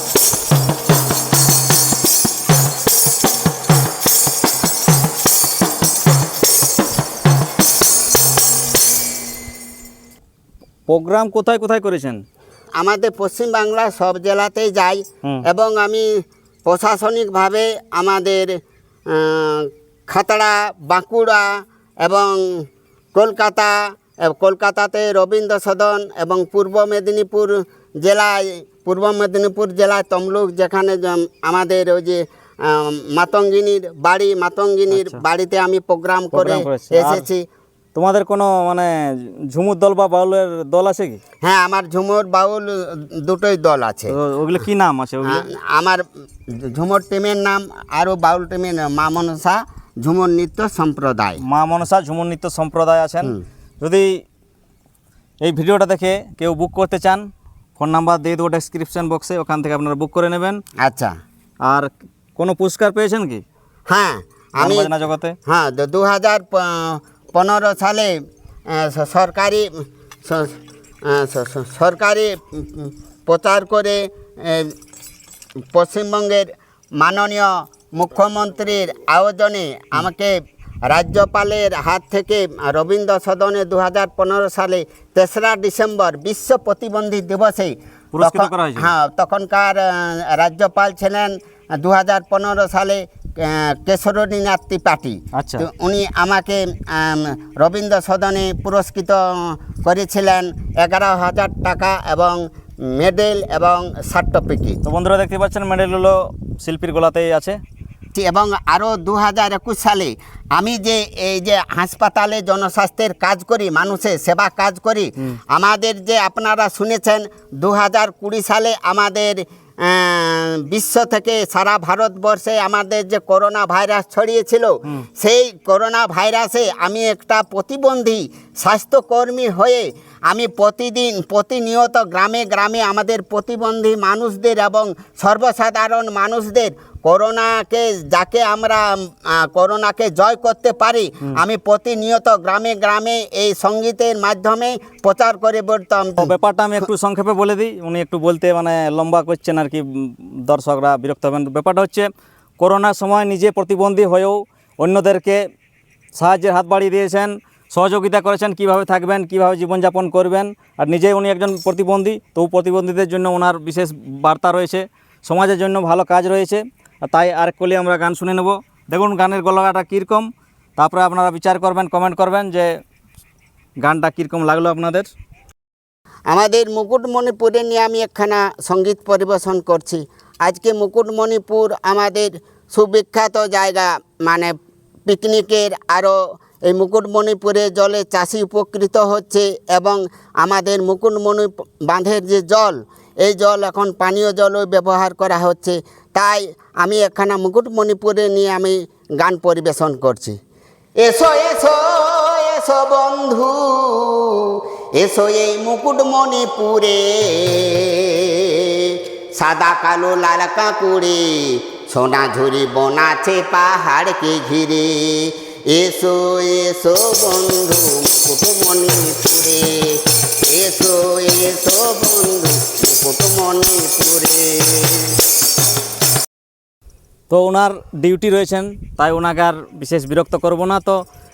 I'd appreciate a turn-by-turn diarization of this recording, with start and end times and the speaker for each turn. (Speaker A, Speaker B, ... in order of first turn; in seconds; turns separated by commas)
Speaker A: 10.9-12.2, Speaker B: 12.8-21.5, Speaker B: 22.0-37.4, Speaker A: 34.9-35.2, Speaker A: 36.3-37.2, Speaker A: 37.9-41.2, Speaker B: 41.4-44.1, Speaker A: 44.1-45.5, Speaker B: 45.2-51.4, Speaker A: 51.5-54.2, Speaker A: 55.4-57.3, Speaker A: 57.8-60.6, Speaker B: 60.8-61.1, Speaker A: 61.6-63.4, Speaker B: 63.9-64.9, Speaker A: 64.6-65.3, Speaker B: 65.5-68.1, Speaker B: 68.7-69.7, Speaker B: 70.2-70.5, Speaker B: 71.1-74.7, Speaker B: 75.7-104.8, Speaker A: 88.1-88.9, Speaker A: 95.3-95.7, Speaker A: 104.8-107.6, Speaker B: 108.1-146.3, Speaker A: 146.2-155.4, Speaker A: 156.1-172.7, Speaker A: 173.8-175.1, Speaker B: 176.3-184.5, Speaker B: 185.1-200.4, Speaker B: 201.0-225.2, Speaker A: 227.3-231.0